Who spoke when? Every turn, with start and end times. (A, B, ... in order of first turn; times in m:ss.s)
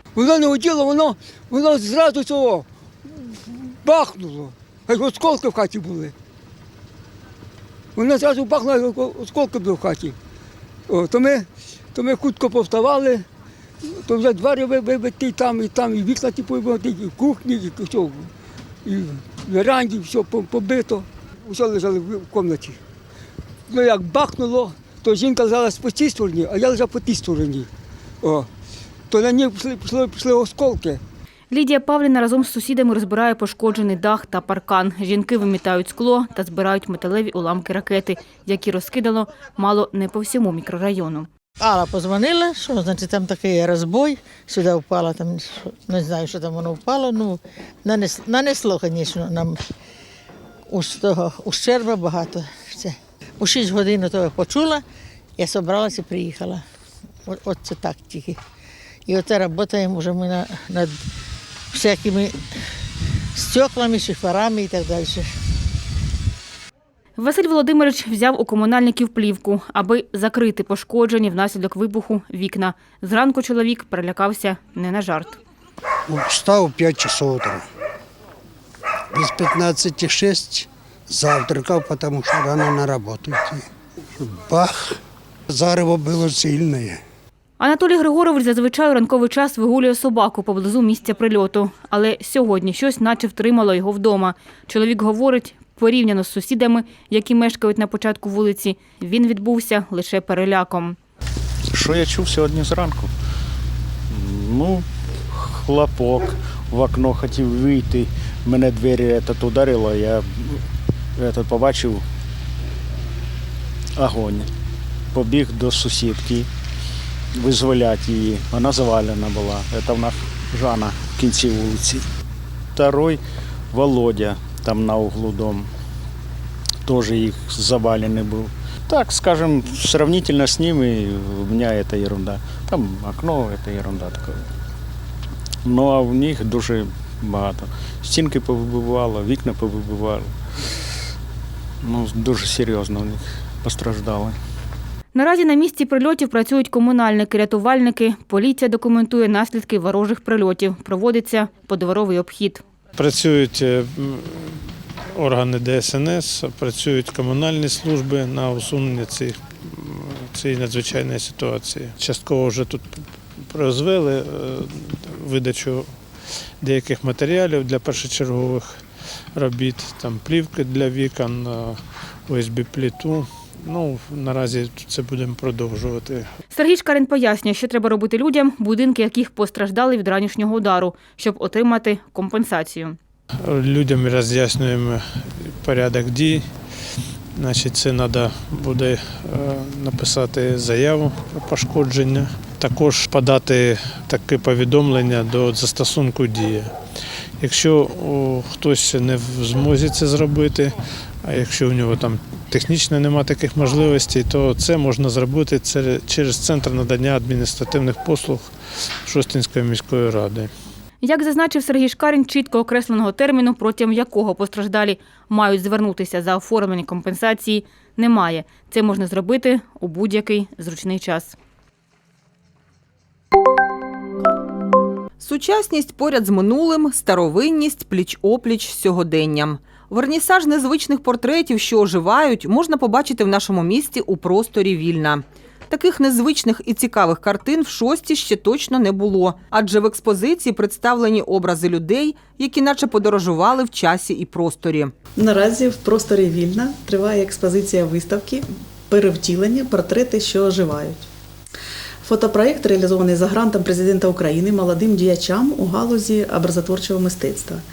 0:00.2-0:02.6 A
0:03.3-0:06.1 A
0:08.0-0:10.2 A
0:10.9-0:13.3 A
0:13.8-0:18.3 A
0:18.8-0:22.8 A
0:23.7-0:27.7 A
0:28.2-0:28.5 A
0:29.1-0:31.0 A
0:31.5-0:41.3 B
0:41.6-0:49.6 C
0:50.7-0:54.8 C
0:55.4-0:56.6 C
0:57.2-0:58.4 C
0:59.1-1:00.9 C
1:01.7-1:02.3 C
1:03.3-1:05.2 C
1:07.2-1:15.4 B
1:16.1-1:17.6 D
1:19.1-1:23.6 D
1:24.2-1:24.9 D
1:25.5-1:27.0 D
1:27.6-1:41.0 B
1:41.7-1:43.1 E
1:44.1-1:50.6 E
1:51.2-1:52.0 E
1:54.0-1:54.5 E
1:55.1-1:56.5 E
1:57.3-2:02.0 E
2:02.7-2:05.7 E
2:06.8-2:14.4 E
2:15.6-2:20.3 E
2:21.8-2:24.4 E
2:25.1-2:32.6 B
2:33.0-2:45.9 F
2:46.6-2:48.7 F
2:49.3-2:56.3 F
2:56.5-3:03.0 B
3:03.4-3:06.5 F
3:07.4-3:16.7 F
3:17.4-3:28.5 F
3:29.0-3:30.5 F
3:31.0-3:41.4 B
3:45.2-4:04.9 G
4:05.2-4:11.0 H
4:12.0-4:17.6 H